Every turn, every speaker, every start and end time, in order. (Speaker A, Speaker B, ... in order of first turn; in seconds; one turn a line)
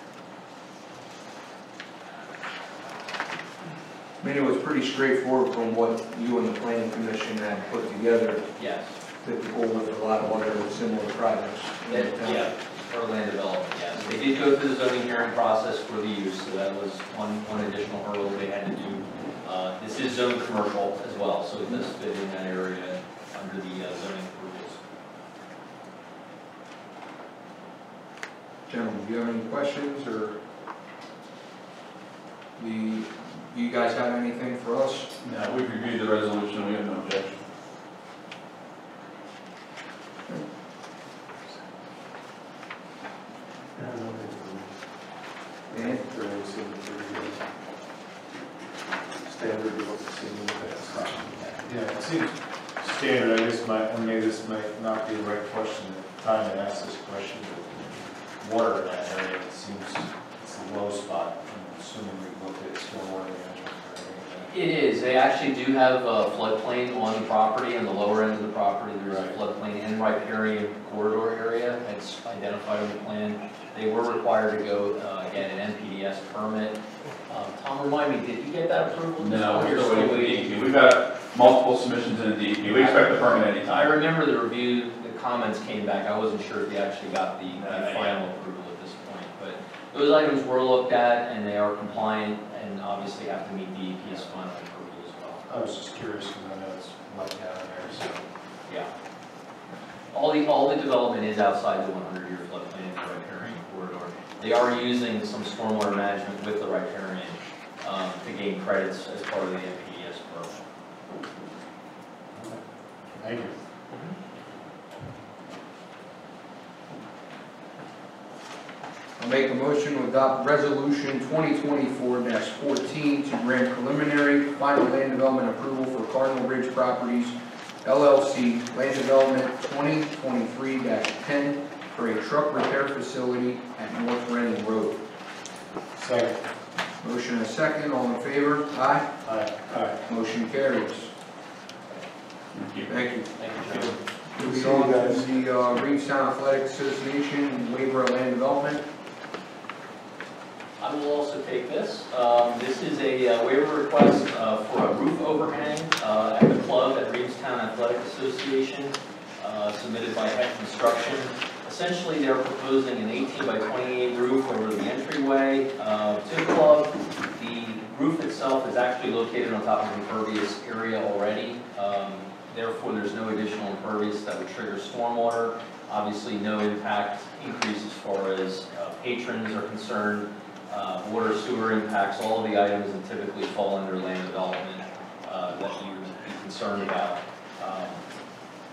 Speaker A: 4.2-8.4
Speaker B: 8.6-8.9
Speaker A: 9.2-12.5
Speaker B: 11.9-24.8
Speaker A: 28.7-30.4
Speaker A: 32.6-35.1
Speaker C: 35.2-37.4
Speaker D: 43.8-44.7
Speaker D: 45.7-47.4
Speaker A: 45.7-46.0
Speaker D: 49.2-51.5
Speaker E: 51.6-64.5
Speaker B: 64.5-80.5
Speaker E: 69.0-69.3
Speaker C: 79.2-83.8
Speaker B: 82.6-95.5
Speaker C: 87.6-88.2
Speaker E: 95.5-98.2
Speaker B: 100.1-110.6
Speaker E: 112.3-112.6
Speaker E: 113.2-113.5
Speaker A: 119.2-135.0
Speaker E: 135.9-136.4
Speaker A: 137.0-139.1
Speaker E: 139.2-140.0
Speaker A: 140.1-141.1
Speaker A: 142.9-148.8
Speaker B: 143.4-143.9
Speaker E: 144.4-145.2
Speaker B: 150.8-188.0